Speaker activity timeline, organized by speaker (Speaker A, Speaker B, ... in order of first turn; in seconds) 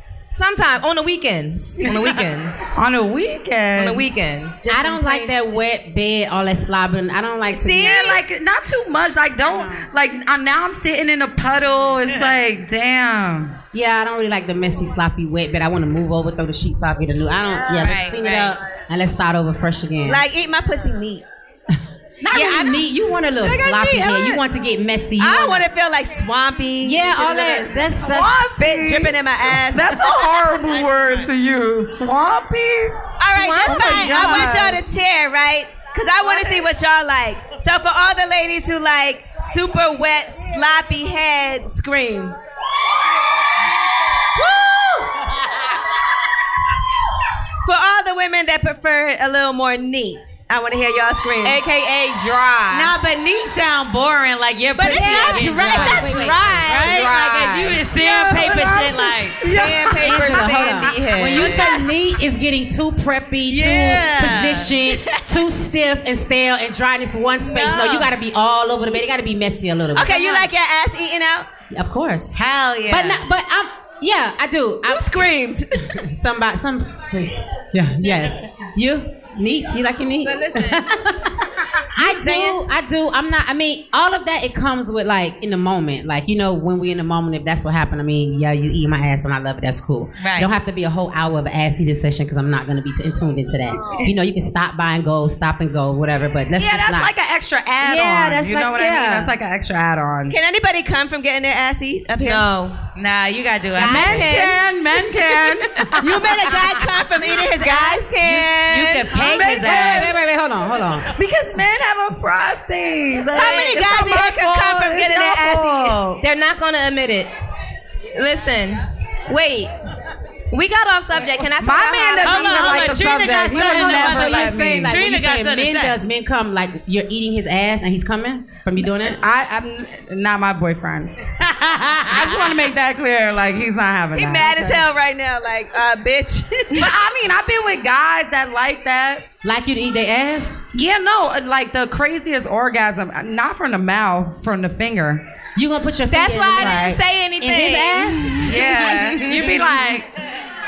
Speaker A: 0.3-2.7, 3.7-5.3, 33.4-34.7, 51.4-52.9, 55.7-57.8, 59.5-61.7, 80.2-80.8, 82.1-82.5, 102.2-102.8, 103.8-104.6, 116.2-117.3, 118.1-119.7, 120.5-123.0, 146.1-148.4
Speaker B: 2.7-4.1, 7.7-13.6, 22.3-22.7, 23.6-24.2, 28.0-33.0, 33.5-34.8, 58.0-59.8, 96.6-100.3, 103.8-106.7, 109.1-110.1, 111.1-116.2, 121.6-125.0, 129.0-131.1, 132.1-134.8, 136.7-139.2, 140.7-145.2, 148.3-150.1
Speaker C: 4.7-7.9, 9.5-9.8, 13.7-20.2, 22.2-25.6, 26.8-28.5, 54.9-56.3, 60.0-70.5, 71.7-75.3, 75.9-97.1, 97.8-99.3, 104.1-104.4, 109.3-111.1, 123.4-129.2, 139.4-140.6, 145.5-149.8
Speaker D: 7.5-8.2, 20.1-21.2, 25.2-27.8, 28.6-29.9, 33.2-42.4, 47.6-51.6, 54.8-57.0, 64.0-64.4, 67.4-68.0, 69.9-71.5, 74.9-75.8, 100.3-102.5, 106.0-109.0, 113.3-116.0, 134.1-136.9
Speaker E: 17.7-18.5, 52.7-59.4, 63.5-64.7, 72.3-73.2, 90.2-90.5, 103.0-104.3, 107.9-110.1, 122.2-126.0, 131.4-132.5